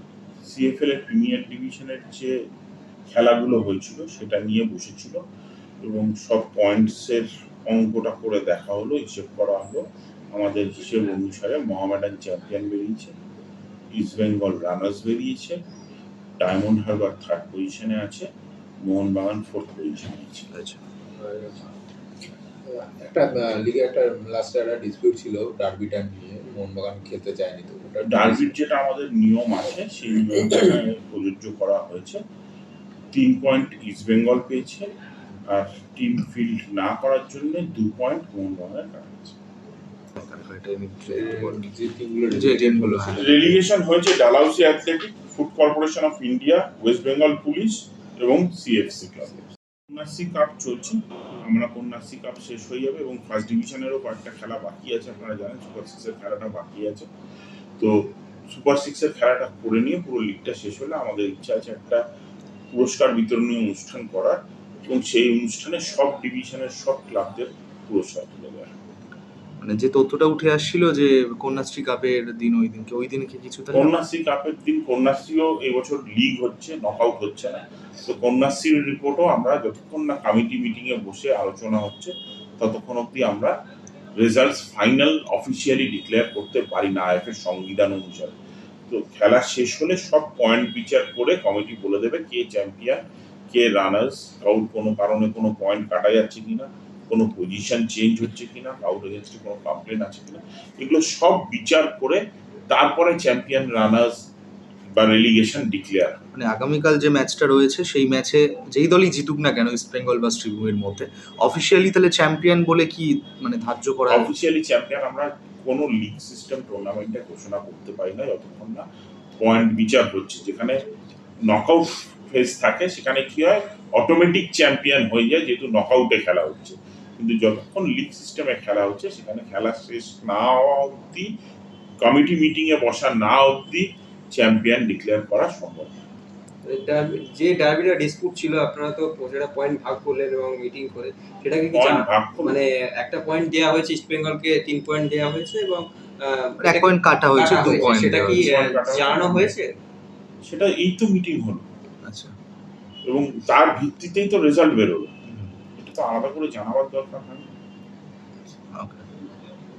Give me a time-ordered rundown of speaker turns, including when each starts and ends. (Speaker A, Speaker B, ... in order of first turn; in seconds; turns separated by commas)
Speaker A: 0.4-2.3, Speaker A: 3.1-5.2, Speaker A: 5.8-13.1, Speaker A: 13.9-15.6, Speaker A: 16.4-18.3, Speaker A: 18.8-20.5, Speaker B: 20.5-20.8, Speaker C: 21.1-21.7, Speaker C: 22.6-28.6, Speaker A: 28.0-32.2, Speaker A: 33.1-34.9, Speaker A: 35.5-39.4, Speaker B: 40.1-41.7, Speaker C: 41.1-43.6, Speaker B: 42.3-43.3, Speaker A: 43.1-57.1, Speaker A: 57.8-62.0, Speaker A: 62.7-68.8, Speaker B: 69.6-74.0, Speaker A: 73.7-83.5, Speaker A: 84.2-88.3, Speaker A: 88.9-104.2, Speaker A: 105.0-106.2, Speaker B: 106.3-114.3, Speaker A: 114.1-118.8, Speaker A: 119.4-120.8, Speaker A: 121.5-131.3, Speaker A: 132.0-135.9, Speaker D: 136.6-149.7, Speaker A: 141.7-142.6, Speaker B: 146.6-148.4, Speaker A: 147.9-149.5, Speaker A: 150.4-151.7, Speaker B: 152.0-152.3, Speaker A: 153.1-155.1, Speaker A: 155.8-157.4, Speaker B: 158.7-159.0